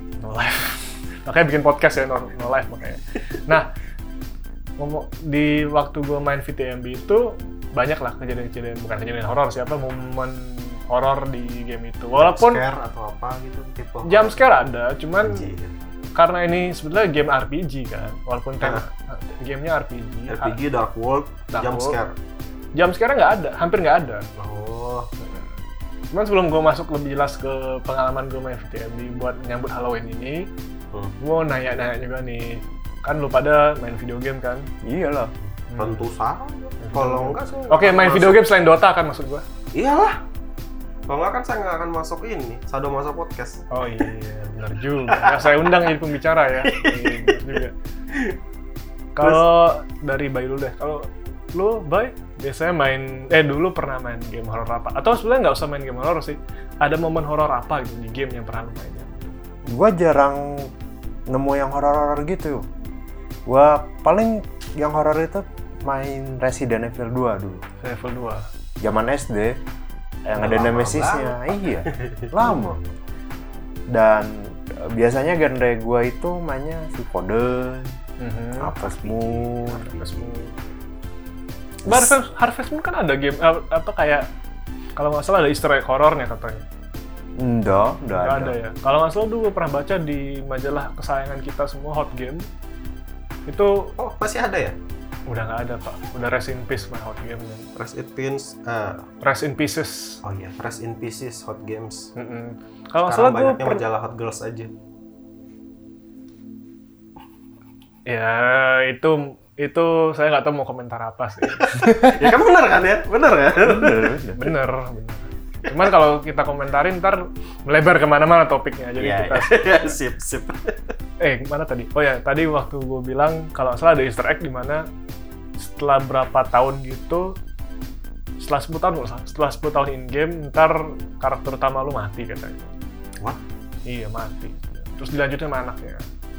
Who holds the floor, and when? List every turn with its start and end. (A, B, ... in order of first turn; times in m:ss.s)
0:00.2-0:03.7 A
0:04.8-0:12.6 A
0:12.2-0:14.4 B
0:14.0-0:15.5 A
0:15.2-0:15.7 B
0:16.2-0:20.6 A
0:20.3-0:22.1 B
0:21.5-0:22.0 A
0:22.8-0:24.3 A
0:24.4-0:25.1 B
0:25.2-0:25.5 A
0:26.1-0:30.5 A
0:31.2-0:34.7 A
0:34.8-0:35.3 C
0:35.6-0:38.4 B
0:35.7-0:36.0 A
0:36.9-0:39.4 A
0:39.7-0:40.2 B
0:41.1-0:43.7 B
0:43.7-0:47.8 A
0:45.1-0:45.9 B
0:46.6-0:48.4 B
0:49.2-0:59.3 A
0:59.7-1:00.7 C
1:01.3-1:02.7 C
1:03.5-1:07.6 C
1:07.8-1:08.5 A
1:08.8-1:09.6 C
1:10.3-1:12.8 C
1:10.4-1:12.4 B
1:13.9-1:18.0 C
1:18.2-1:18.7 A
1:18.6-1:19.9 C
1:18.6-1:20.2 B
1:19.8-1:20.6 A
1:21.9-1:22.2 C
1:21.9-1:24.3 A
1:25.0-1:26.7 A
1:27.4-1:28.5 C
1:28.2-1:32.5 A
1:33.5-1:33.9 A
1:34.0-1:34.8 B
1:35.3-1:37.7 A
1:37.8-1:39.0 B
1:39.2-1:40.2 A
1:40.2-1:42.1 B
1:42.2-1:43.8 A
1:43.1-1:44.7 B
1:48.1-1:51.7 A
1:51.5-1:54.2 B
1:51.8-1:52.3 C
1:53.6-1:54.4 C
1:54.4-1:59.7 A
1:59.0-2:00.8 B
2:01.2-2:04.9 A
2:05.6-2:07.4 A
2:08.4-2:12.7 A
2:13.9-2:16.0 A